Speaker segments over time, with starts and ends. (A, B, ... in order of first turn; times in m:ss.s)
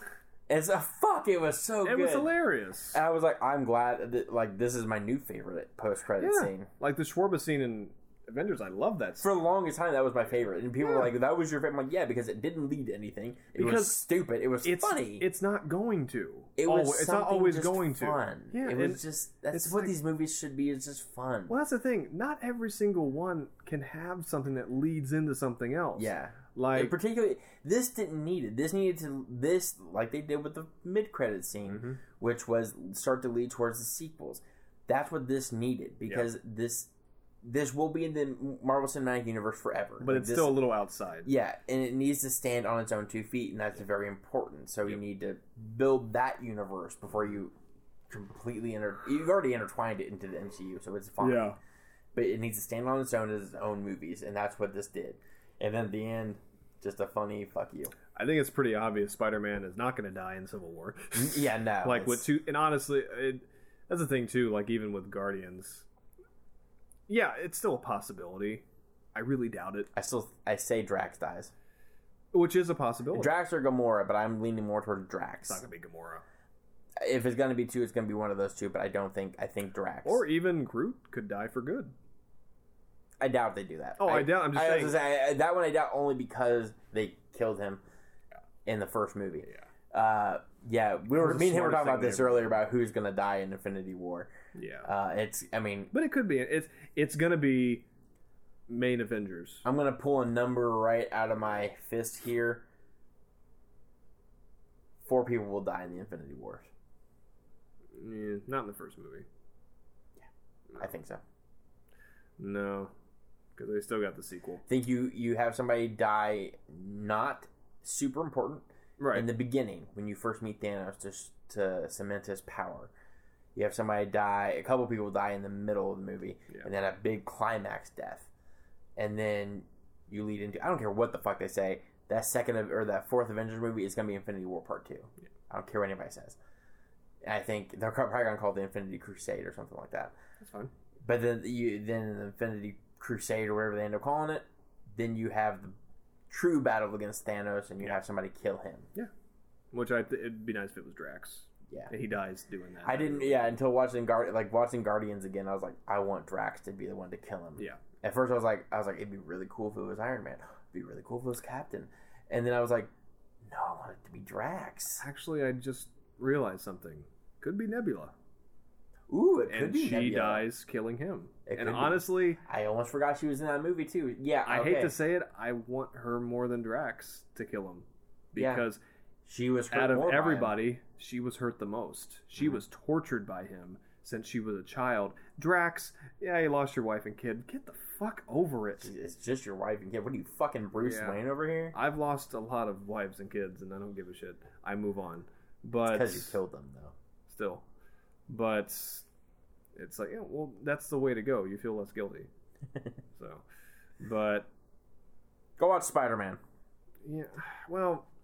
0:00.5-0:02.3 A
0:01.8-0:03.0 B
0:02.9-0:06.7 A
0:06.2-0:09.3 B
0:09.2-0:15.2 A
0:10.8-0:11.1 B
0:13.5-0:14.0 B
0:14.6-0:19.9 B
0:16.6-0:21.5 A
0:21.5-0:26.9 B
0:26.0-0:36.9 A
0:31.7-0:32.0 B
0:37.4-0:40.6 A
0:40.0-0:41.3 B
0:41.2-0:47.5 A
0:48.1-0:51.6 A
0:51.2-0:51.6 B
0:52.1-0:57.9 A
0:58.1-1:05.9 B
1:01.1-1:02.3 A
1:07.1-1:09.9 B
1:09.9-1:11.5 A
1:12.3-1:13.4 B
1:13.1-1:15.6 A
1:15.4-1:16.2 B
1:17.0-1:20.2 A
1:20.0-1:21.9 B
1:23.2-1:27.8 A
1:24.0-1:25.0 B
1:28.6-1:34.3 A
1:31.1-1:32.6 B
1:34.5-1:34.9 B
1:34.8-1:35.9 A
1:35.9-1:37.8 B
1:38.7-1:39.6 B
1:39.6-1:42.6 A
1:45.0-1:46.7 A
1:47.9-1:49.3 B
1:50.8-1:51.2 A
1:52.4-1:52.9 B
1:53.6-1:54.6 B
1:54.7-2:02.9 A
1:59.0-1:59.3 B
2:03.5-2:08.3 A
2:09.0-2:16.4 A
2:17.2-2:20.1 A
2:20.4-2:20.7 B
2:21.0-2:25.7 A
2:26.3-2:28.9 A
2:29.7-2:33.6 B
2:32.8-2:42.9 A
2:43.4-2:45.0 A
2:45.0-2:48.1 B
2:49.1-2:50.4 A
2:49.5-2:52.4 B
2:51.4-2:54.9 A
2:54.4-2:58.8 B
2:58.4-2:58.6 A
2:59.2-3:00.6 A
2:59.7-3:08.9 B
3:08.8-3:11.8 A
3:10.8-3:11.2 B
3:11.7-3:16.4 B
3:15.9-3:16.9 A
3:17.3-3:17.6 B
3:18.3-3:19.1 B
3:19.8-3:22.3 B
3:23.1-3:23.4 B
3:24.0-3:24.5 B
3:25.6-3:26.4 A
3:27.0-3:28.1 B